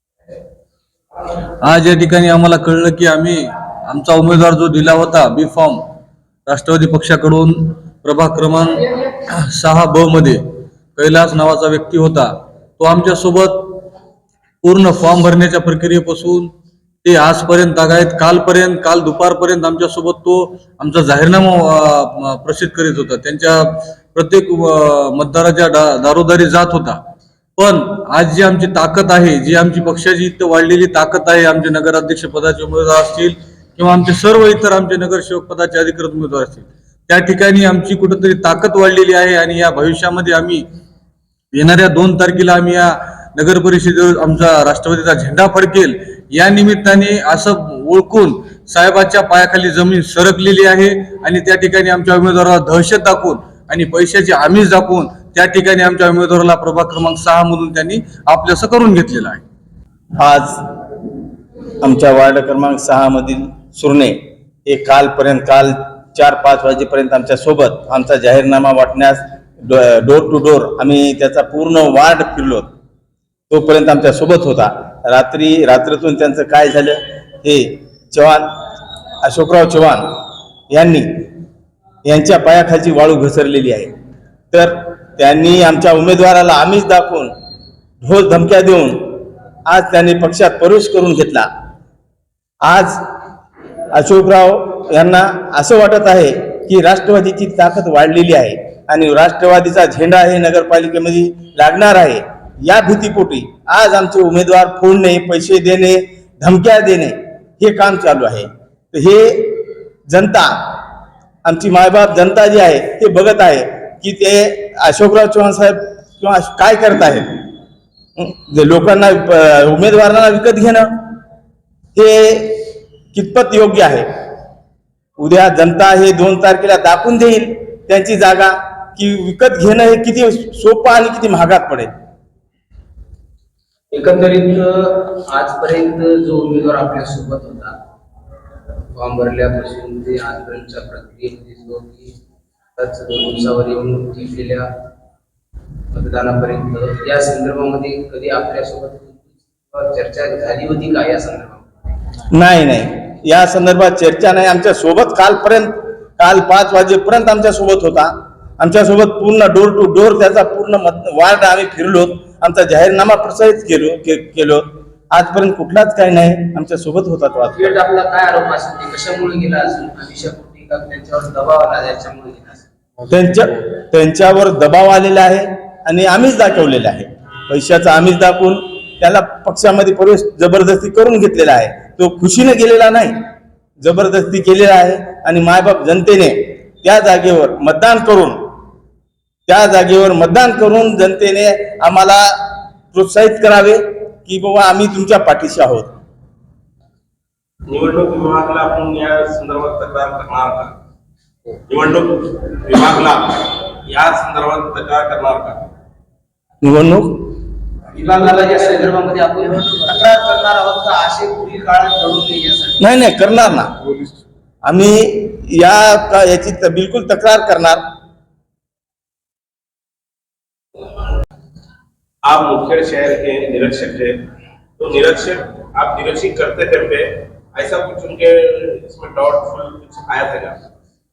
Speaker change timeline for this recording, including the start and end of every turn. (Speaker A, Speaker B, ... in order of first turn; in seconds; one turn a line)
Speaker A: 1.6-5.8
Speaker A: 6.5-13.9
Speaker A: 14.6-16.5
Speaker A: 17.0-27.0
Speaker A: 27.6-40.6
Speaker A: 41.5-59.4
Speaker B: 60.2-60.7
Speaker B: 61.8-72.7
Speaker B: 73.5-78.5
Speaker B: 79.2-81.3
Speaker B: 82.1-83.9
Speaker B: 84.5-87.3
Speaker B: 88.0-91.5
Speaker B: 92.7-93.0
Speaker B: 93.9-110.8
Speaker B: 111.5-117.5
Speaker B: 118.2-121.1
Speaker B: 122.0-124.1
Speaker B: 125.2-131.9
Speaker C: 133.9-137.8
Speaker C: 138.9-142.2
Speaker C: 142.8-144.7
Speaker C: 145.9-151.7
Speaker B: 152.3-167.7
Speaker C: 167.5-172.7
Speaker B: 173.1-183.2
Speaker B: 183.8-188.6
Speaker B: 189.5-195.9
Speaker D: 198.4-200.7
Speaker D: 202.8-203.2
Speaker D: 204.0-204.8
Speaker B: 206.6-207.2
Speaker C: 207.9-212.9
Speaker B: 212.8-213.8
Speaker B: 214.7-217.8
Speaker D: 224.8-226.0
Speaker D: 227.9-228.2
Speaker D: 229.2-230.3